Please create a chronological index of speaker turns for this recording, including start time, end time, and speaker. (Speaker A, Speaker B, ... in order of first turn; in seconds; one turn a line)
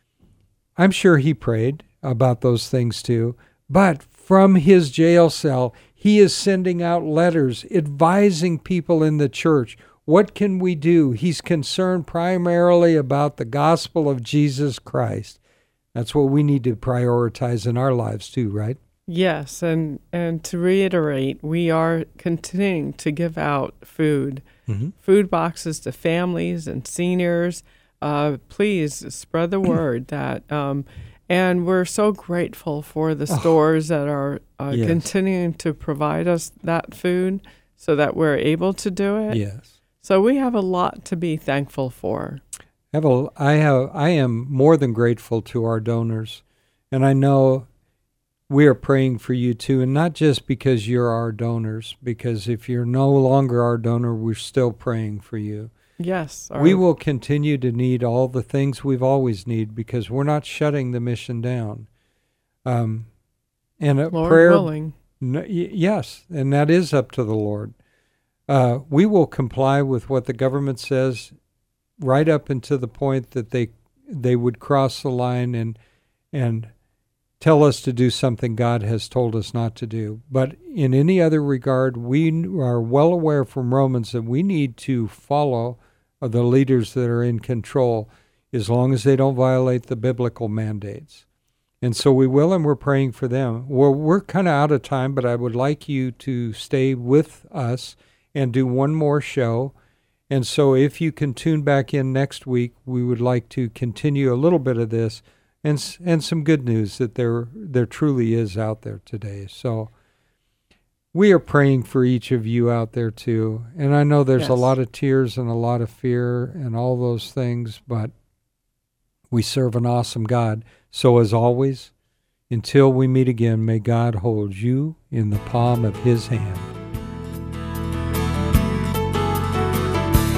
Speaker A: 0.8-15.4
Speaker A: 15.9-18.8
Speaker B: 19.1-24.4
Speaker A: 24.7-24.9
Speaker B: 24.9-39.4
Speaker A: 33.3-33.5
Speaker A: 34.7-35.0
Speaker A: 39.3-39.8
Speaker B: 40.0-42.4
Speaker A: 42.9-47.7
Speaker A: 48.5-55.7
Speaker B: 56.0-56.8
Speaker A: 56.5-61.9
Speaker A: 62.6-63.1
Speaker A: 63.8-67.7
Speaker B: 64.1-65.0
Speaker A: 68.5-71.3
Speaker A: 72.0-75.8
Speaker A: 76.3-76.7
Speaker A: 77.4-91.2
Speaker A: 91.8-99.7
Speaker A: 100.3-109.9
Speaker A: 111.1-118.1
Speaker B: 114.4-114.7
Speaker A: 119.3-121.9
Speaker A: 122.5-126.7